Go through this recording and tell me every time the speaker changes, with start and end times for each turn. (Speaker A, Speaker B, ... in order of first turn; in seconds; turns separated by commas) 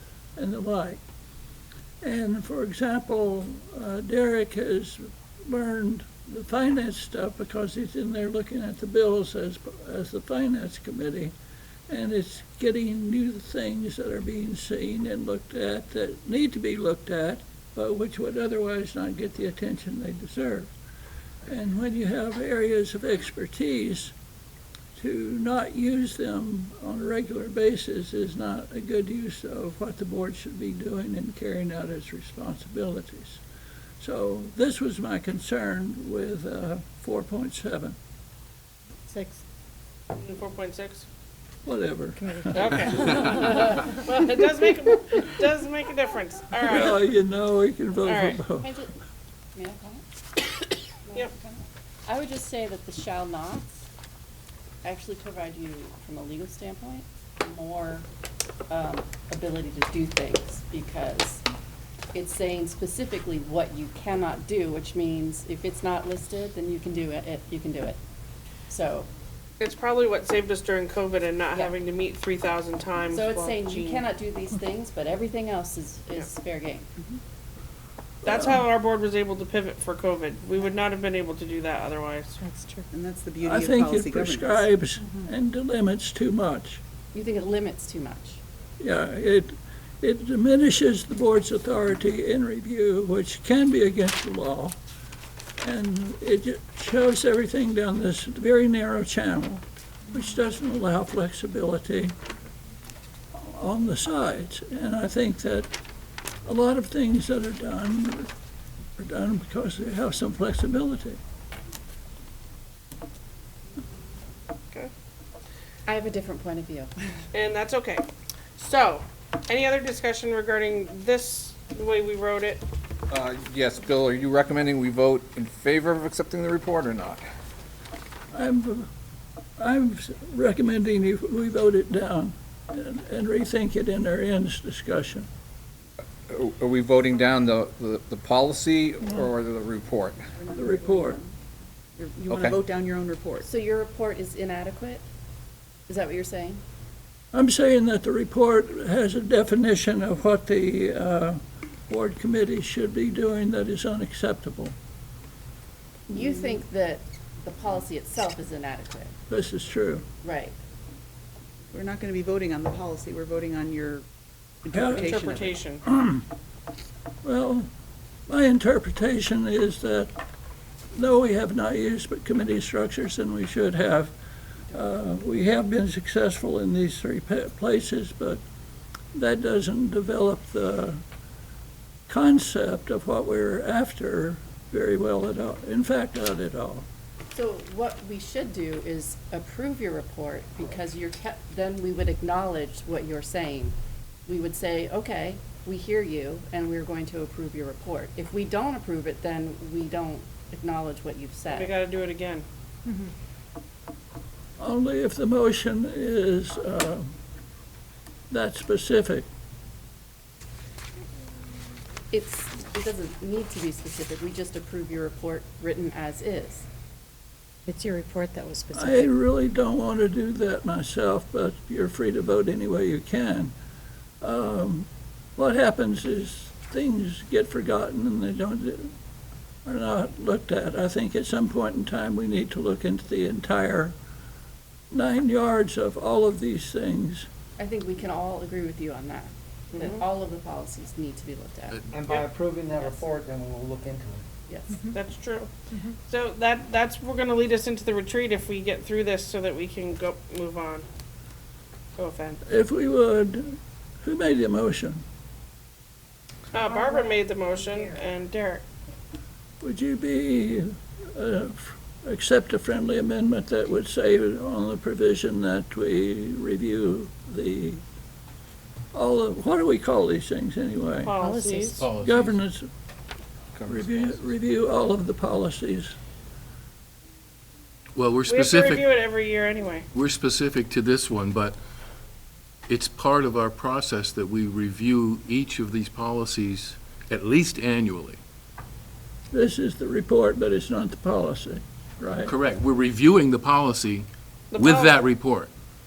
Speaker A: 0.3-1.0, Speaker A: 2.0-11.3, Speaker A: 11.9-20.7, Speaker A: 21.5-24.1, Speaker A: 24.9-33.4, Speaker A: 34.0-38.0, Speaker B: 39.1-39.4, Speaker C: 40.1-41.0, Speaker A: 41.6-43.2, Speaker B: 42.2-43.4, Speaker C: 42.5-47.0, Speaker D: 43.0-43.7, Speaker A: 46.6-48.7, Speaker C: 48.0-48.4, Speaker D: 48.6-48.9, Speaker D: 49.5-50.0, Speaker D: 51.0-53.7, Speaker D: 54.8-58.1, Speaker D: 58.7-61.4, Speaker D: 62.1-68.0, Speaker D: 68.7-69.1, Speaker C: 69.6-74.0, Speaker D: 73.1-76.9, Speaker A: 78.2-78.7, Speaker C: 78.2-82.4, Speaker B: 82.4-82.9, Speaker E: 82.9-84.7, Speaker A: 83.4-86.8, Speaker D: 87.1-88.4, Speaker A: 88.8-94.8, Speaker A: 95.6-102.1, Speaker A: 103.3-105.7, Speaker A: 106.4-108.3, Speaker A: 109.0-111.2, Speaker D: 115.8-116.9, Speaker C: 117.3-118.0, Speaker C: 118.6-122.6, Speaker F: 123.1-127.2, Speaker A: 128.3-128.9, Speaker A: 129.6-135.3, Speaker F: 136.3-140.2, Speaker E: 140.4-141.3, Speaker A: 140.5-141.2, Speaker E: 141.9-143.5, Speaker F: 142.3-142.6, Speaker D: 143.4-145.0, Speaker D: 145.9-146.6, Speaker A: 147.3-154.8, Speaker D: 156.1-159.2, Speaker A: 159.3-160.1, Speaker D: 160.2-160.5, Speaker E: 161.7-164.1, Speaker E: 164.6-165.6, Speaker A: 164.7-165.2, Speaker C: 164.9-165.8, Speaker A: 165.9-166.2, Speaker A: 167.2-167.7, Speaker A: 168.3-170.1, Speaker A: 170.9-174.1, Speaker A: 174.7-178.4, Speaker A: 179.1-181.0, Speaker A: 182.1-186.9, Speaker D: 187.3-193.7, Speaker D: 194.3-201.7, Speaker C: 201.5-202.4, Speaker A: 204.6-207.2, Speaker A: 208.3-209.2, Speaker D: 212.1-216.7, Speaker B: 217.7-219.1, Speaker A: 218.7-223.5, Speaker A: 224.2-228.9, Speaker A: 229.6-233.9, Speaker A: 234.9-237.3, Speaker D: 237.6-241.8, Speaker C: 239.7-240.0, Speaker G: 241.7-242.2, Speaker H: 241.9-244.2, Speaker D: 242.8-243.0, Speaker D: 244.5-244.9, Speaker C: 244.9-245.5, Speaker C: 246.1-250.8, Speaker C: 252.0-252.4, Speaker A: 252.4-255.0, Speaker C: 256.5-258.6, Speaker B: 256.7-257.9, Speaker A: 259.6-267.8, Speaker A: 268.9-271.1, Speaker C: 271.0-271.8, Speaker B: 271.1-271.8, Speaker G: 271.8-272.4, Speaker A: 271.9-272.7, Speaker F: 273.6-274.1, Speaker A: 273.6-275.9, Speaker G: 277.9-278.9, Speaker C: 278.2-279.9, Speaker G: 279.9-281.6, Speaker G: 282.7-288.2, Speaker A: 289.3-292.4, Speaker G: 292.2-295.5, Speaker C: 294.5-295.0